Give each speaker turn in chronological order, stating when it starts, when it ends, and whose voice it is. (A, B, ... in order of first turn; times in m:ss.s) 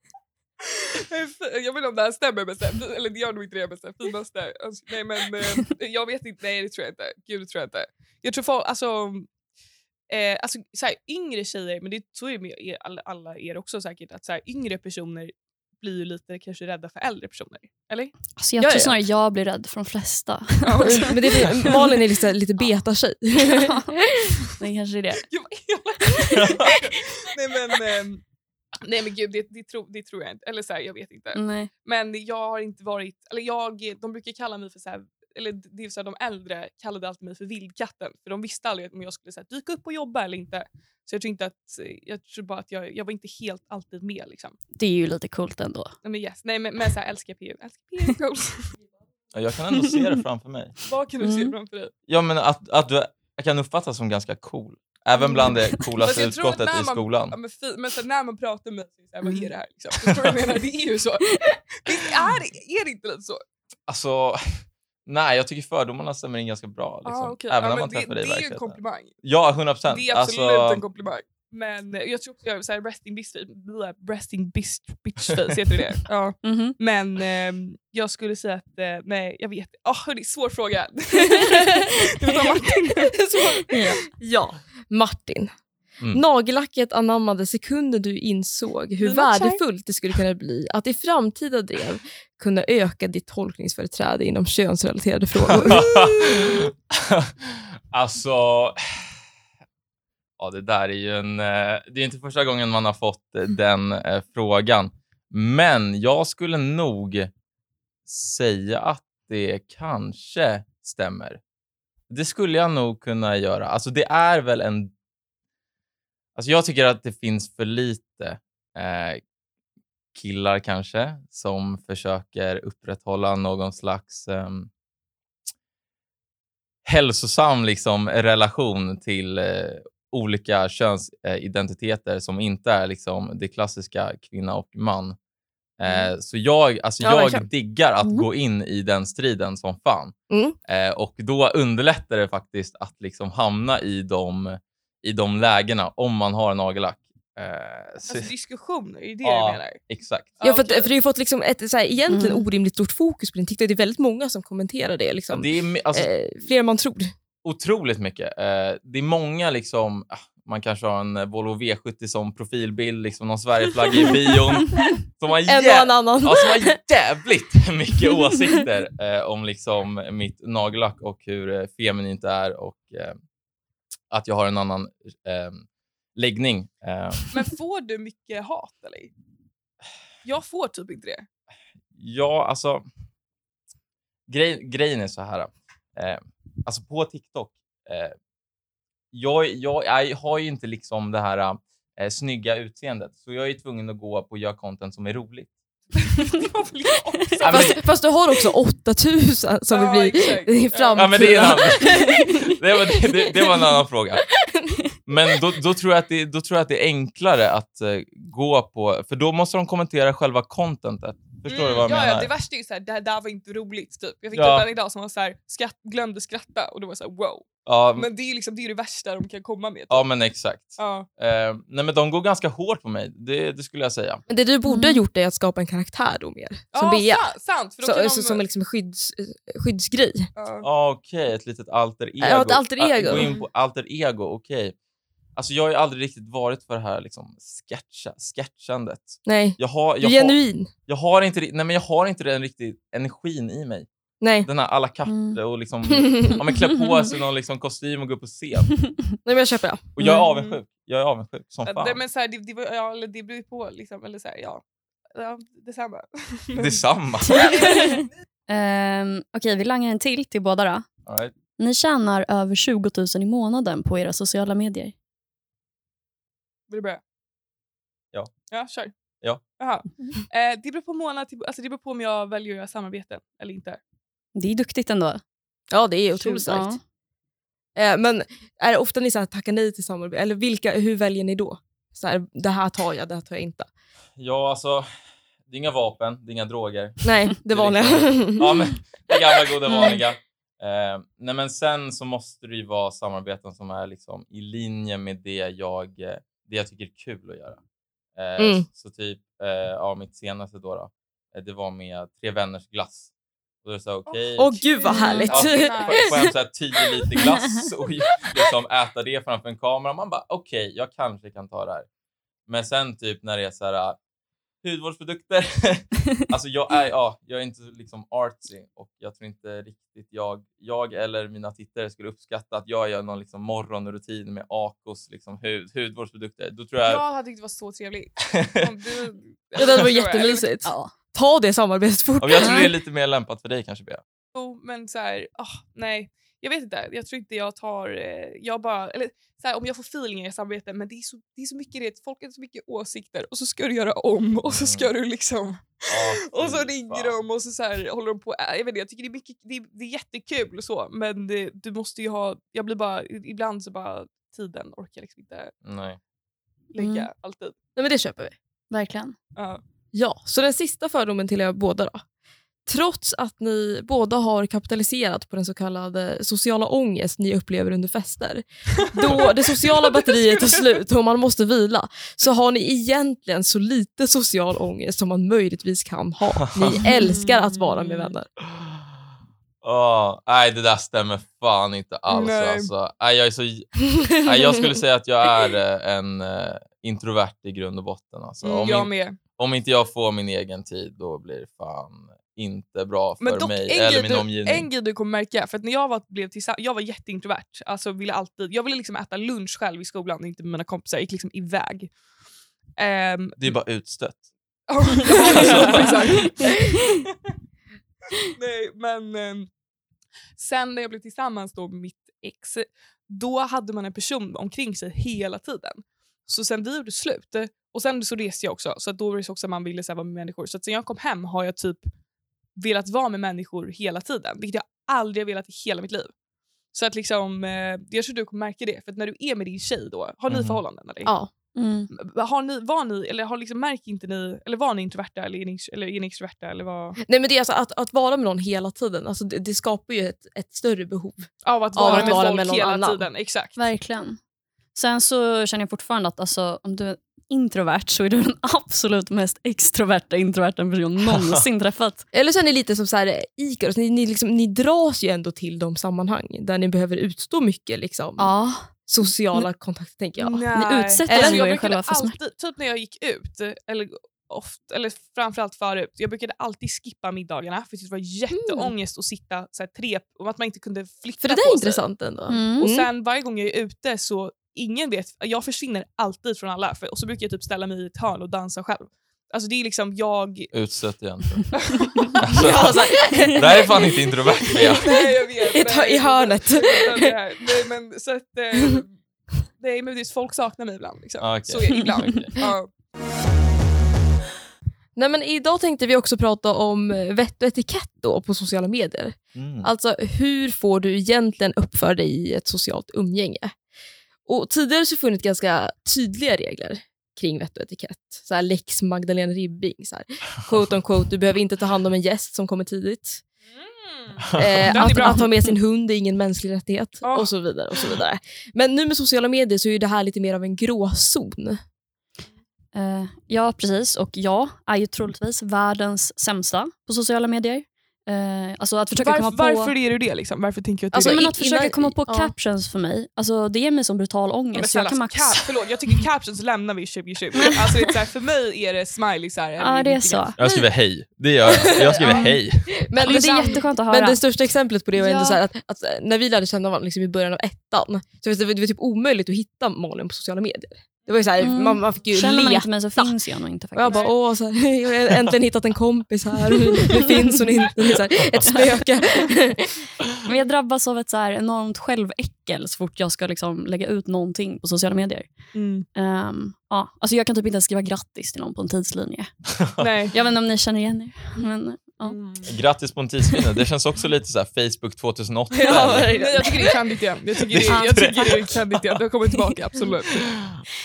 0:00.6-0:09.3 A
0:10.1-0:18.1 A
0:18.4-0:21.7 B
0:18.6-0:19.0 C
0:20.6-0:21.9 A
0:20.8-0:24.5 C
0:23.5-0:23.9 B
0:24.6-0:25.2 B
0:25.3-0:28.2 A
0:26.2-0:26.8 C
0:26.3-0:26.7 D
0:28.8-0:44.6 A
0:31.3-0:31.7 B
0:44.8-0:45.9 B
0:46.0-0:48.7 A
0:49.3-0:50.8 D
0:50.9-0:51.9 A
0:51.2-0:51.5 B
0:52.1-0:57.3 D
0:55.2-0:55.8 B
0:56.0-1:03.4 A
1:00.0-1:00.3 D
1:03.9-1:04.4 D
1:05.0-1:10.8 D
1:07.0-1:09.1 A
1:09.9-1:23.6 A
1:15.2-1:15.6 D
1:16.4-1:16.8 B
1:21.2-1:25.5 C
1:23.7-1:24.0 B
1:26.1-1:36.3 C
1:29.0-1:29.6 A
1:35.5-1:38.8 D
1:40.4-1:47.3 D
1:48.0-1:51.4 D
1:52.1-1:54.9 D
1:56.4-1:59.2 D
2:00.1-2:04.7 D
2:06.8-2:15.2 D
2:15.8-2:20.1 D
2:17.0-2:17.4 C
2:20.3-2:20.6 C
2:20.7-2:28.3 D
2:28.1-2:29.8 A
2:29.2-2:30.4 D
2:30.4-2:30.9 A
2:30.4-2:37.1 C
2:32.1-2:32.5 B
2:35.3-2:36.1 D
2:37.4-2:53.2 D
2:45.5-2:46.8 C
2:54.1-2:57.3 D
2:57.3-2:59.1 A
3:00.2-3:01.2 A
3:01.9-3:02.8 D
3:04.3-3:08.1 D
3:09.1-3:15.5 D
3:16.0-3:17.8 A
3:17.4-3:17.8 D
3:17.5-3:23.7 C
3:19.7-3:21.6 A
3:20.9-3:24.2 D
3:25.1-3:32.3 D
3:31.5-3:40.0 A
3:34.3-3:34.7 D
3:37.6-3:38.1 D
3:39.9-3:44.2 D
3:40.8-3:41.1 A
3:44.3-3:50.3 C
3:44.6-3:45.0 B
3:46.7-3:48.4 A
3:50.4-3:50.7 A
3:50.6-3:54.7 D
3:52.2-3:53.3 C
3:53.1-3:53.5 A
3:55.4-4:03.9 D
3:59.2-4:00.7 C
4:04.2-4:04.5 C
4:04.4-4:08.7 D
4:05.0-4:05.4 B
4:05.9-4:06.4 C
4:09.2-4:10.2 C
4:10.0-4:12.0 D
4:10.0-4:10.6 A
4:11.6-4:14.6 A
4:15.1-4:17.9 A
4:16.6-4:17.6 D
4:17.2-4:20.8 B
4:21.0-4:21.3 D
4:21.6-4:24.9 B
4:26.7-4:27.0 A
4:28.5-4:28.9 A
4:29.6-4:33.8 A
4:34.3-4:35.2 B
4:35.7-4:36.8 C
4:36.2-4:36.8 B
4:37.8-4:43.7 C
4:44.2-4:44.8 D
4:45.5-4:57.6 D
4:47.0-4:48.7 C
4:49.7-4:50.0 B
4:58.2-5:03.1 D
4:58.4-4:58.6 C
5:03.6-5:04.5 D
5:04.1-5:06.3 A
5:04.4-5:06.3 C
5:04.8-5:05.3 B
5:05.3-5:11.9 D
5:12.5-5:14.0 D
5:14.6-5:27.0 D
5:26.8-5:30.5 A
5:28.3-5:28.7 D
5:29.6-5:32.7 C
5:30.6-5:30.9 B
5:32.2-5:34.0 D
5:32.4-5:32.7 B
5:34.3-5:55.5 A
5:44.4-5:44.9 D
5:45.9-5:47.1 D
5:55.6-5:56.0 D
5:56.7-5:57.5 A
5:56.8-5:57.1 B
5:57.8-5:58.3 C
5:58.7-5:59.1 B
5:59.4-5:59.6 A
5:59.9-6:02.0 C
6:02.7-6:18.3 C
6:09.0-6:10.8 A
6:16.5-6:16.8 D
6:17.0-6:18.1 A
6:18.4-6:18.9 D
6:19.6-6:34.7 D
6:22.1-6:22.7 A
6:23.9-6:24.7 C
6:28.4-6:29.2 A
6:33.2-6:41.9 A
6:42.8-6:43.4 A
6:43.4-6:44.2 D
6:44.7-6:47.0 A
6:45.2-6:46.2 D
6:48.2-6:49.5 A
6:50.4-7:01.8 A
7:02.6-7:06.1 A
7:06.7-7:11.1 A
7:10.3-7:10.6 D
7:11.0-7:11.3 C
7:11.6-7:11.9 B
7:11.9-7:17.0 A
7:17.0-7:23.1 C
7:21.4-7:23.6 A
7:21.8-7:22.2 B
7:23.6-7:24.2 B
7:24.7-7:32.0 B
7:31.0-7:31.4 D
7:32.1-7:40.5 C
7:38.2-7:38.7 B
7:40.2-7:51.8 A
7:40.5-7:42.2 B
7:41.1-7:41.4 C
7:48.3-7:48.7 C
7:51.2-7:52.9 C
7:52.3-7:52.7 B
7:52.6-8:00.5 A
8:00.5-8:01.5 D
8:01.5-8:02.1 A
8:02.2-8:07.1 C
8:02.2-8:04.9 D
8:04.5-8:08.9 A
8:09.6-8:12.7 A
8:11.2-8:12.3 D
8:15.0-8:23.5 C
8:19.3-8:19.7 D
8:24.2-8:33.2 C
8:33.6-8:35.5 A
8:34.2-8:34.6 D
8:34.3-8:41.6 C
8:34.9-8:35.2 B
8:37.0-8:37.3 A
8:42.7-8:49.7 B
8:49.0-8:51.2 A
8:50.9-8:52.3 C
8:51.0-8:55.4 B
8:54.5-9:00.3 A
8:57.4-8:57.8 B
8:59.6-9:00.4 B
9:00.4-9:02.7 D
9:01.5-9:13.1 C
9:01.7-9:02.0 A
9:03.0-9:04.2 B
9:04.9-9:05.4 B
9:11.4-9:14.1 B
9:13.7-9:19.8 C
9:13.9-9:14.1 A
9:20.2-9:25.3 B
9:25.5-9:25.8 A
9:25.9-9:29.3 B
9:29.5-9:29.9 D
9:29.8-9:30.1 A
9:30.1-9:32.2 B
9:32.0-9:32.5 A
9:32.4-9:36.1 D
9:35.5-9:36.9 C
9:35.7-9:40.3 A
9:37.4-9:39.0 D
9:37.7-9:38.4 B